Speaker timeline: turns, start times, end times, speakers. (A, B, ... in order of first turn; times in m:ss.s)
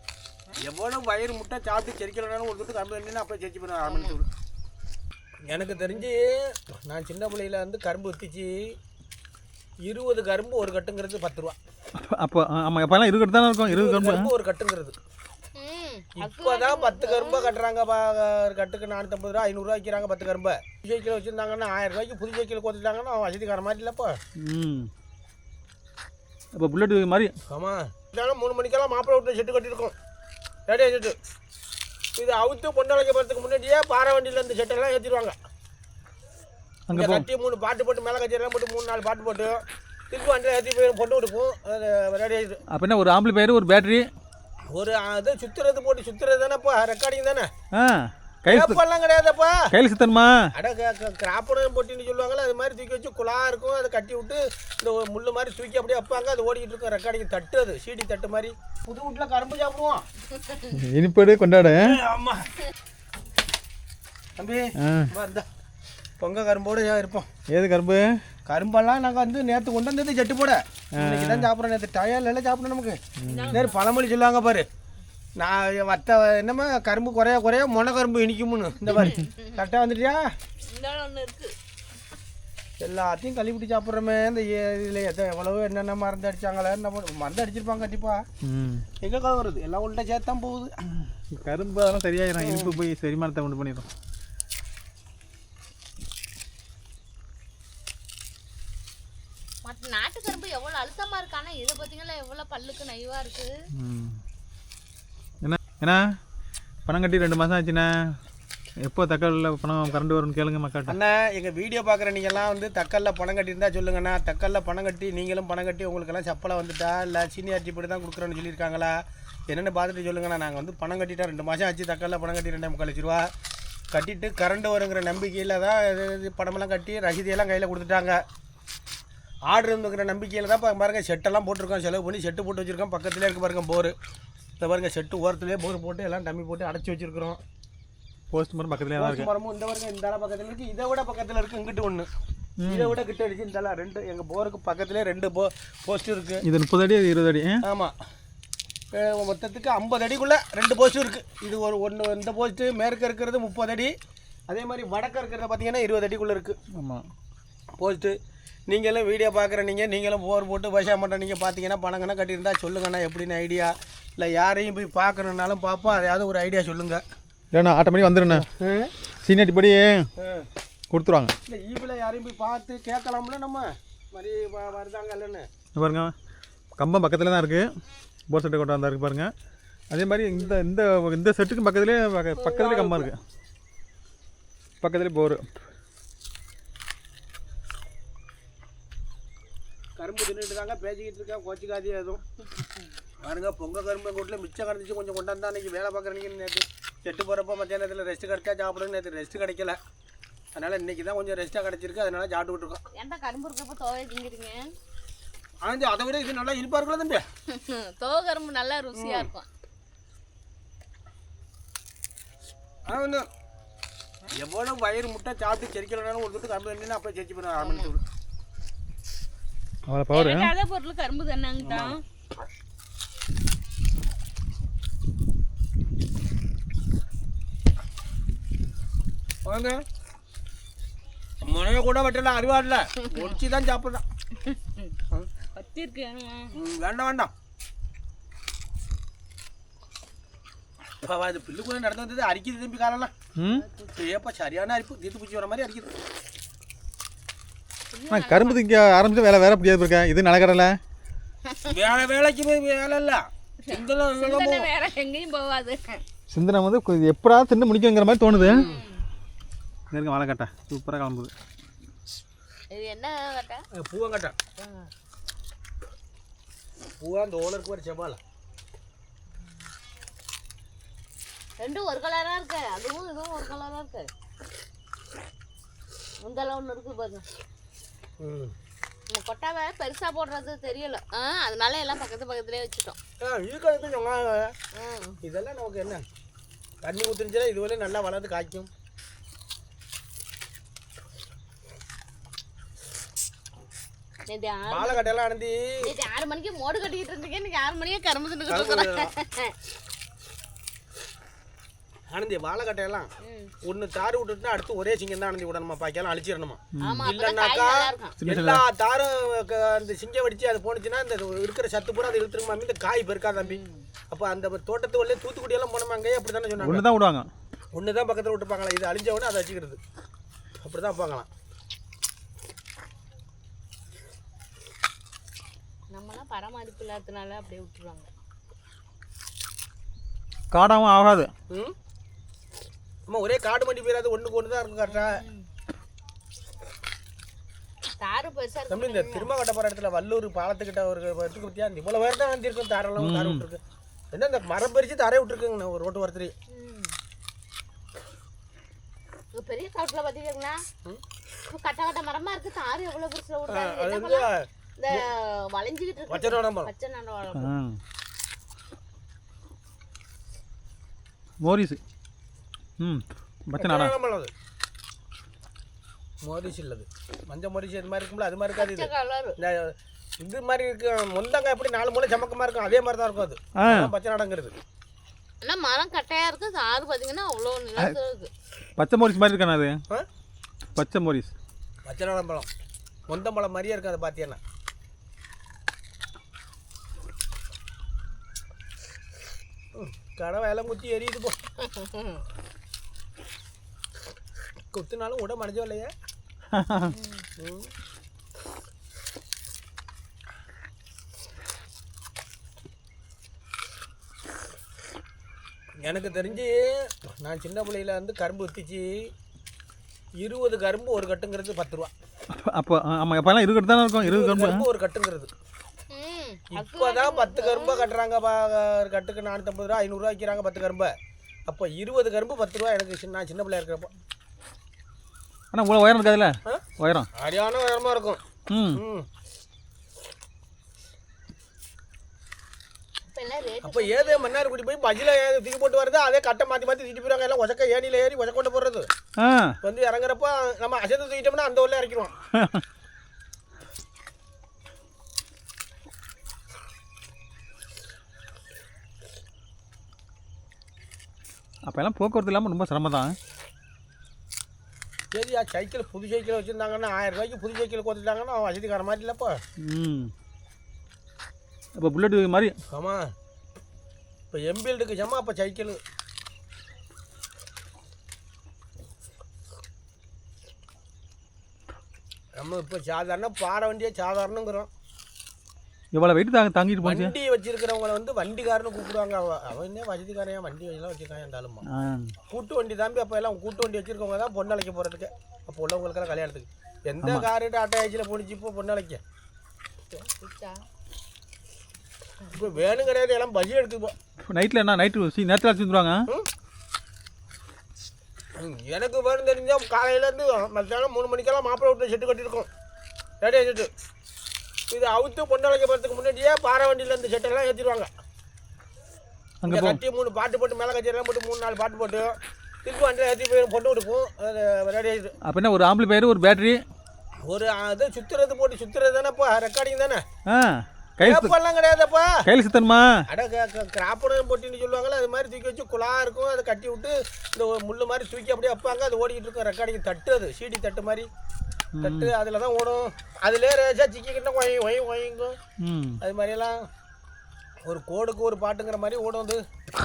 0:00.6-0:04.3 A
0:03.9-0:04.2 B
0:05.5-0:08.8 A
0:05.8-0:06.0 B
0:09.8-0:11.6 A
0:12.0-0:14.3 C
0:13.7-0:15.0 A
0:15.6-0:17.6 B
0:16.2-0:24.2 A
0:24.4-0:24.9 C
0:26.6-0:27.3 C
0:27.5-0:29.9 A
0:30.7-0:31.2 A
0:32.2-0:35.4 A
0:36.9-0:37.3 C
0:36.9-0:42.6 A
0:42.7-0:44.1 C
0:44.7-0:47.5 A
0:47.7-0:48.8 C
0:48.5-0:49.7 A
0:49.7-0:50.5 C
0:50.6-1:00.0 A
1:00.7-1:02.0 C
1:01.8-1:02.5 A
1:04.4-1:05.5 A
1:04.8-1:05.1 C
1:06.2-1:07.3 A
1:07.5-1:08.2 C
1:08.5-1:13.0 A
1:10.9-1:11.5 C
1:13.2-1:13.6 C
1:13.3-1:13.8 B
1:13.5-1:14.7 A
1:15.4-1:20.3 A
1:19.2-1:19.5 B
1:20.6-1:21.6 B
1:22.8-1:28.2 A
1:28.4-1:28.9 C
1:29.0-1:30.7 A
1:31.3-1:33.9 C
1:32.4-1:32.8 A
1:39.6-1:43.5 B
1:43.8-1:44.2 C
1:45.4-1:46.2 C
1:46.9-1:48.2 C
1:48.8-1:51.0 C
1:50.9-2:03.3 A
2:03.9-2:08.2 A
2:09.5-2:13.9 A
2:14.6-2:17.4 A
2:18.3-2:19.3 C
2:19.0-2:22.1 A
2:22.6-2:23.0 C
2:22.6-2:26.4 A
2:26.4-2:27.6 C
2:27.6-2:27.9 A
2:28.9-2:33.9 A
2:34.5-2:36.6 A
2:36.8-2:37.0 C
2:37.8-2:38.2 A
2:38.7-2:47.0 A
2:47.5-2:48.5 C
2:48.4-2:48.9 A
2:49.2-2:50.1 C
2:50.2-2:50.5 A
2:50.9-2:51.3 C
2:51.5-2:55.5 A
2:55.8-2:56.1 C
2:56.8-2:57.7 C
2:58.3-2:59.3 C
2:59.9-3:03.2 C
3:02.5-3:03.1 B
3:04.8-3:05.4 C
3:10.0-3:12.2 A
3:13.2-3:19.8 A
3:20.6-3:22.8 A
3:23.0-3:24.7 B
3:25.6-3:27.2 A
3:27.5-3:29.5 B
3:28.9-3:29.3 A
3:32.9-3:33.3 A
3:34.3-3:38.0 A
3:37.6-3:37.9 B
3:39.9-3:40.5 C
3:40.1-3:42.0 B
3:41.6-3:42.0 A
3:49.4-3:49.8 A
3:51.4-3:54.0 A
3:54.4-3:54.9 B
3:55.5-3:56.6 B
3:56.5-3:57.3 A
4:01.0-4:03.1 A
4:03.4-4:03.6 C
4:03.4-4:03.9 B
4:03.9-4:05.9 A
4:07.9-4:08.6 B
4:08.1-4:10.8 C
4:11.7-4:14.7 A
4:13.7-4:16.0 B
4:16.3-4:18.7 C
4:18.4-4:19.0 B
4:18.4-4:18.9 A
4:19.9-4:21.3 C
4:22.7-4:23.7 B
4:23.7-4:24.4 A
4:24.6-4:24.9 B
4:27.0-4:28.2 A
4:31.6-4:34.1 B
4:36.2-4:37.2 B
4:38.2-4:38.5 A
4:39.1-4:43.0 B
4:43.2-4:44.5 A
4:44.8-4:45.2 B
4:45.2-4:46.0 A
4:46.8-4:48.7 A
4:54.3-4:55.1 B
4:54.7-4:55.8 A
4:55.8-4:59.5 B
4:58.5-4:59.1 A
5:02.1-5:03.1 A
5:03.2-5:03.5 B
5:03.6-5:13.6 A
5:06.8-5:07.0 C
5:06.8-5:08.2 B
5:08.2-5:08.6 C
5:13.4-5:13.9 B
5:14.1-5:16.8 A
5:16.6-5:17.3 C
5:17.7-5:19.8 A
5:20.6-5:21.3 A
5:25.9-5:28.1 B
5:30.5-5:31.3 C
5:33.1-5:35.2 A
5:34.8-5:35.5 B
5:38.0-5:39.3 B
5:38.7-5:43.6 A
5:43.0-5:43.4 C
5:44.1-5:46.3 A
5:46.5-5:46.9 B
5:49.4-5:50.6 B
5:51.5-5:57.5 B
5:53.5-5:55.0 A
5:56.1-5:56.7 A
5:57.4-5:57.8 C
6:01.4-6:01.8 C
6:02.8-6:03.9 C
6:03.6-6:04.3 A
6:06.2-6:14.5 A
6:08.6-6:09.4 B
6:13.6-6:13.9 C
6:15.4-6:18.3 B
6:18.8-6:19.8 C
6:20.8-6:21.3 C
6:21.9-6:22.5 A
6:23.1-6:24.4 A
6:29.8-6:31.4 A
6:31.7-6:32.2 B
6:34.7-6:35.9 A
6:36.5-6:36.9 C
6:36.9-6:37.2 B
6:37.4-6:37.7 A
6:45.8-6:49.1 A
6:46.1-6:46.4 B
6:50.2-6:51.9 A
6:52.3-6:54.7 C
6:54.0-6:55.3 A
6:55.9-6:57.9 B
6:56.5-7:00.9 A
7:01.5-7:03.9 A
7:05.5-7:07.1 C
7:07.2-7:09.1 A
7:08.5-7:08.8 C
7:13.1-7:14.5 B
7:13.6-7:18.9 A
7:19.2-7:19.6 C
7:19.6-7:22.1 A
7:22.4-7:22.6 C
7:31.7-7:33.2 C
7:35.1-7:39.4 A
7:39.6-7:40.1 C
7:41.8-7:42.6 C
7:42.7-7:43.1 A
7:44.3-7:45.8 A
7:52.4-7:54.7 A
7:55.9-7:57.2 C
7:56.8-8:01.6 A
8:01.7-8:02.1 C
8:02.3-8:09.0 A
8:07.0-8:07.3 C
8:09.9-8:10.6 B
8:12.2-8:12.6 B
8:12.3-8:14.0 A
8:14.3-8:16.0 C
8:18.4-8:22.5 A
8:23.2-8:23.7 A
8:24.7-8:27.9 A
8:29.4-8:29.8 C
8:29.5-8:35.1 A
8:35.3-8:36.6 C
8:37.2-8:40.0 A
8:40.3-8:41.3 C
8:41.0-8:42.3 A
8:42.3-8:43.0 C
8:43.1-8:51.1 A
8:51.8-8:52.1 C
8:51.8-8:55.4 A
8:55.6-8:56.0 C
8:56.0-8:56.7 A
8:57.6-8:59.4 A